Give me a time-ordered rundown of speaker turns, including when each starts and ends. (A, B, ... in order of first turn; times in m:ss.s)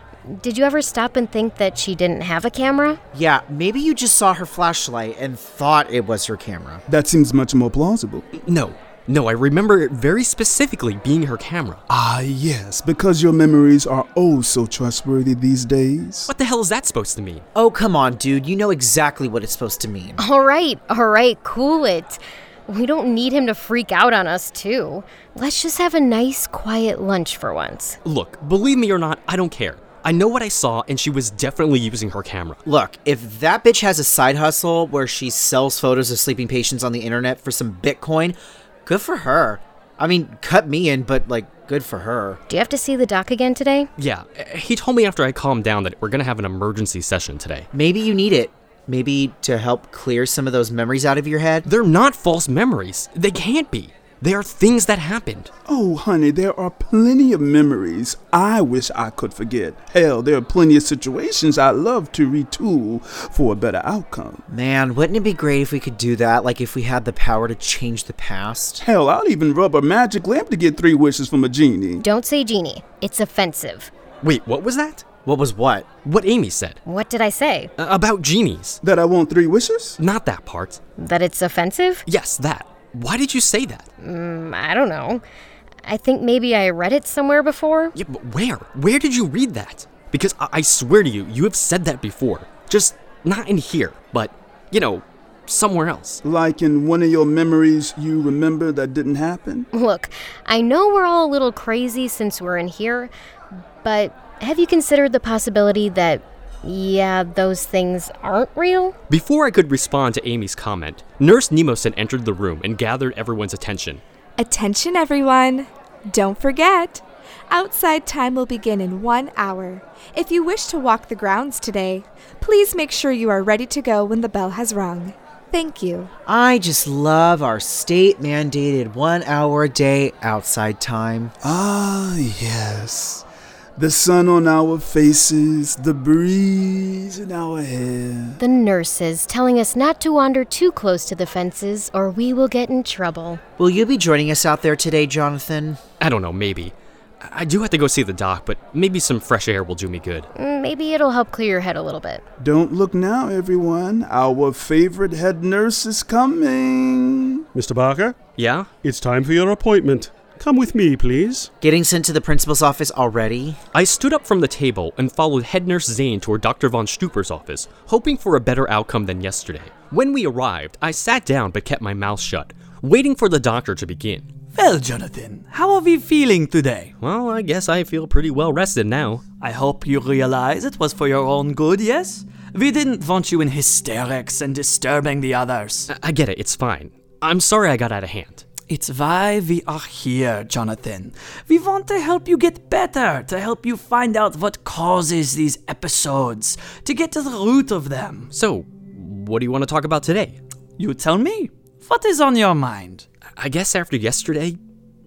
0:00.2-0:03.0 A
0:03.1-0:06.8 B
0:06.9-0:08.3 C
0:08.4-0:11.8 D
0:11.9-0:16.3 C
0:16.3-0:17.4 D
0:17.5-0:20.2 B
0:20.2-0:28.0 A
0:28.0-0:32.6 D
0:32.6-0:42.4 B
0:42.5-0:43.9 A
0:44.0-0:47.7 D
0:47.7-0:51.6 B
0:51.6-0:55.5 D
0:55.7-1:04.4 C
1:04.5-1:08.8 B
1:08.8-1:12.0 C
1:12.0-1:13.9 A
1:14.2-1:15.0 D
1:15.2-1:15.9 B
1:16.0-1:16.8 D
1:16.8-1:17.7 A
1:17.8-1:18.8 D
1:18.8-1:20.0 C
1:20.0-1:20.8 D
1:21.0-1:22.0 A
1:22.0-1:23.9 D
1:24.0-1:25.2 A
1:25.8-1:27.9 A
1:27.9-1:36.2 D
1:36.2-1:39.7 C
1:39.7-1:43.1 A
1:43.8-1:48.9 A
1:49.1-1:54.0 D
1:54.4-2:06.1 E
2:06.3-2:11.3 B
2:11.4-2:13.2 C
2:13.8-2:18.4 C
2:18.4-2:23.4 A
2:23.6-2:25.8 B
2:26.0-2:30.3 D
2:30.3-2:32.2 A
2:32.4-2:37.4 C
2:37.5-2:38.2 F
2:38.4-2:38.7 D
2:38.8-2:41.5 F
2:41.6-2:43.6 B
2:43.7-2:54.3 D
2:54.5-2:56.9 G
2:57.0-2:59.2 D
2:59.4-3:05.9 G
3:05.9-3:08.4 D
3:08.7-3:18.3 G
3:18.3-3:20.4 D
3:20.8-3:23.0 G
3:23.4-3:24.6 D